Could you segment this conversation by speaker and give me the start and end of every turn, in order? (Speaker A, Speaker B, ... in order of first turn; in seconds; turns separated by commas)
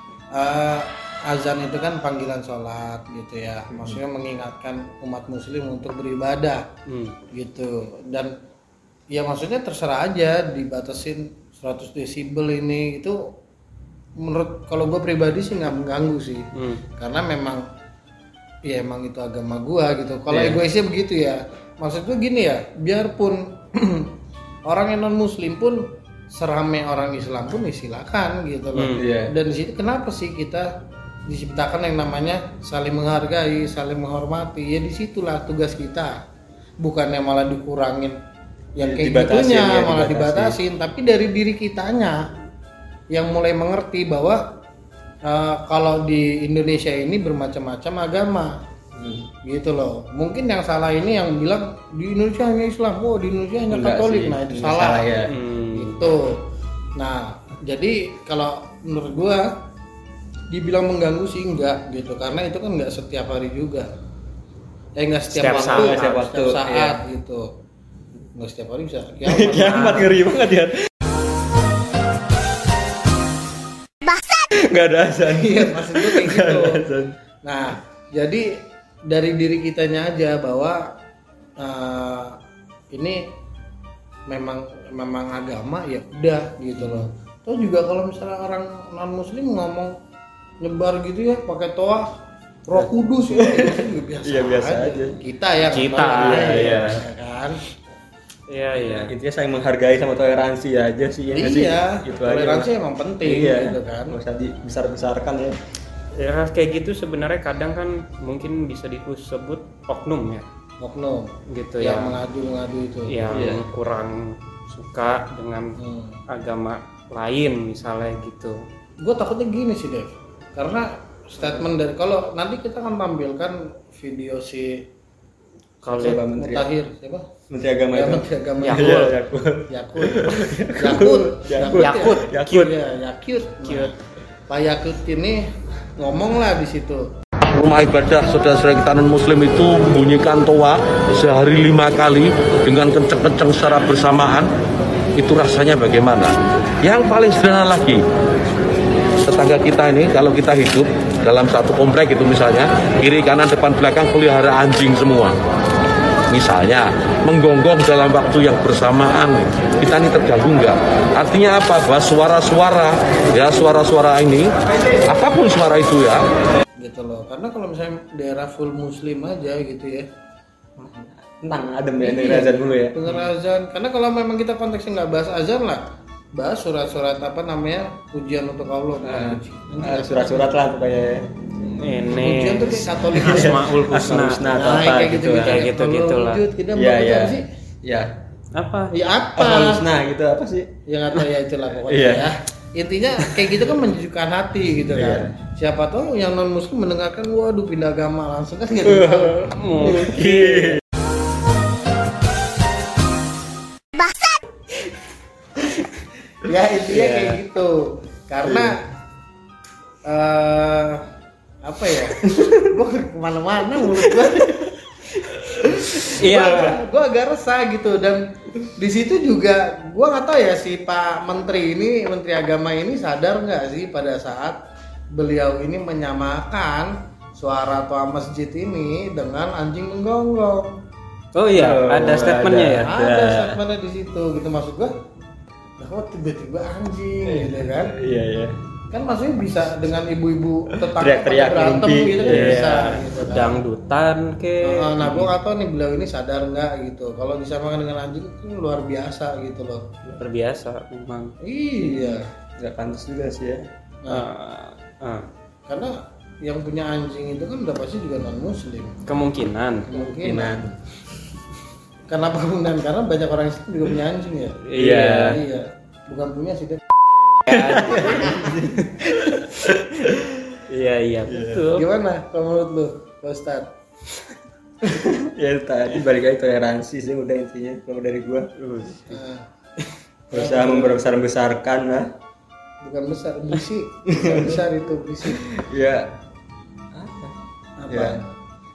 Speaker A: 0.3-6.7, Speaker B: 6.9-7.2, Speaker A: 7.3-8.3, Speaker A: 9.1-13.3, Speaker A: 14.2-17.6, Speaker B: 16.5-16.8, Speaker A: 18.6-24.1, Speaker C: 20.3-20.6, Speaker A: 24.6-30.7, Speaker B: 28.7-29.0, Speaker C: 28.9-29.3, Speaker A: 31.2-36.2, Speaker A: 36.8-38.2, Speaker A: 38.7-42.3, Speaker C: 38.8-40.6, Speaker A: 43.1-44.5, Speaker A: 45.2-48.6, Speaker C: 48.9-49.3, Speaker A: 49.4-56.4, Speaker C: 53.7-55.3, Speaker B: 55.2-56.1, Speaker A: 57.0-59.5, Speaker A: 60.5-63.9, Speaker A: 65.0-67.5, Speaker B: 65.3-66.2, Speaker C: 65.4-67.0, Speaker A: 68.3-70.1, Speaker C: 69.2-70.9, Speaker B: 69.6-70.0, Speaker C: 74.5-77.1, Speaker A: 75.3-76.8, Speaker A: 77.4-80.8, Speaker A: 81.6-82.3, Speaker A: 82.9-83.3, Speaker A: 84.3-89.9, Speaker C: 86.8-87.1, Speaker A: 90.6-92.1, Speaker A: 92.6-97.6, Speaker C: 92.7-95.2, Speaker B: 95.7-96.9, Speaker C: 95.9-97.0, Speaker B: 98.5-99.1, Speaker C: 98.8-102.7, Speaker A: 101.3-104.2, Speaker C: 103.2-105.6, Speaker B: 106.2-110.4, Speaker A: 110.8-113.2, Speaker B: 111.5-112.2, Speaker B: 113.1-115.8, Speaker C: 113.3-113.6, Speaker A: 115.8-116.2, Speaker B: 116.3-118.6, Speaker A: 119.0-124.8, Speaker B: 125.8-126.2, Speaker C: 126.0-126.7, Speaker A: 126.0-127.2, Speaker C: 127.5-132.8, Speaker A: 127.9-129.1, Speaker B: 128.6-129.2, Speaker A: 129.7-133.9, Speaker B: 131.7-132.7, Speaker B: 133.6-133.9, Speaker A: 134.5-135.4, Speaker A: 136.0-137.1, Speaker D: 137.4-144.5, Speaker D: 145.2-148.0, Speaker D: 149.2-155.3, Speaker D: 156.3-164.5, Speaker D: 165.1-166.2, Speaker A: 166.8-170.1, Speaker C: 170.8-173.0, Speaker A: 172.0-175.8, Speaker A: 176.3-180.5, Speaker C: 179.0-181.3, Speaker B: 181.7-184.5, Speaker A: 182.1-187.4, Speaker C: 183.1-185.7, Speaker B: 185.3-186.4, Speaker C: 186.7-188.1, Speaker B: 188.5-188.9, Speaker A: 188.9-189.8, Speaker C: 189.3-191.2, Speaker A: 190.9-199.5, Speaker C: 191.8-192.3, Speaker C: 194.9-195.3, Speaker C: 198.8-200.8, Speaker B: 199.5-200.8, Speaker A: 206.4-208.8, Speaker B: 206.9-207.4, Speaker C: 208.4-208.8, Speaker A: 210.0-211.0, Speaker A: 211.6-214.8, Speaker C: 212.3-212.6, Speaker C: 213.9-214.4, Speaker C: 215.3-216.8, Speaker A: 215.5-218.2, Speaker B: 216.2-216.8, Speaker A: 218.8-224.6, Speaker A: 225.1-230.8, Speaker B: 231.3-232.9, Speaker C: 231.5-233.6, Speaker A: 232.2-234.9, Speaker A: 235.8-237.9, Speaker C: 237.2-238.6, Speaker A: 238.9-243.6, Speaker C: 240.8-242.9, Speaker B: 242.2-245.3, Speaker A: 244.6-249.9, Speaker B: 250.2-251.3, Speaker A: 251.4-252.3, Speaker C: 251.8-253.6, Speaker B: 254.1-255.3, Speaker A: 255.7-259.0, Speaker B: 259.1-259.9, Speaker A: 259.9-260.7, Speaker C: 259.9-260.8, Speaker A: 262.1-264.6, Speaker B: 264.6-265.4, Speaker C: 264.7-265.4, Speaker A: 265.2-266.8, Speaker B: 267.5-268.5, Speaker C: 267.5-270.6, Speaker A: 268.1-268.5, Speaker B: 270.7-271.8, Speaker C: 271.3-271.7, Speaker A: 271.7-273.7, Speaker C: 274.8-278.5, Speaker B: 278.6-279.2, Speaker A: 279.1-279.5, Speaker C: 280.3-282.1, Speaker A: 280.3-281.0, Speaker A: 282.8-285.4, Speaker C: 284.1-284.6, Speaker C: 285.2-286.1, Speaker C: 286.9-287.3, Speaker A: 287.8-288.2, Speaker C: 287.9-288.2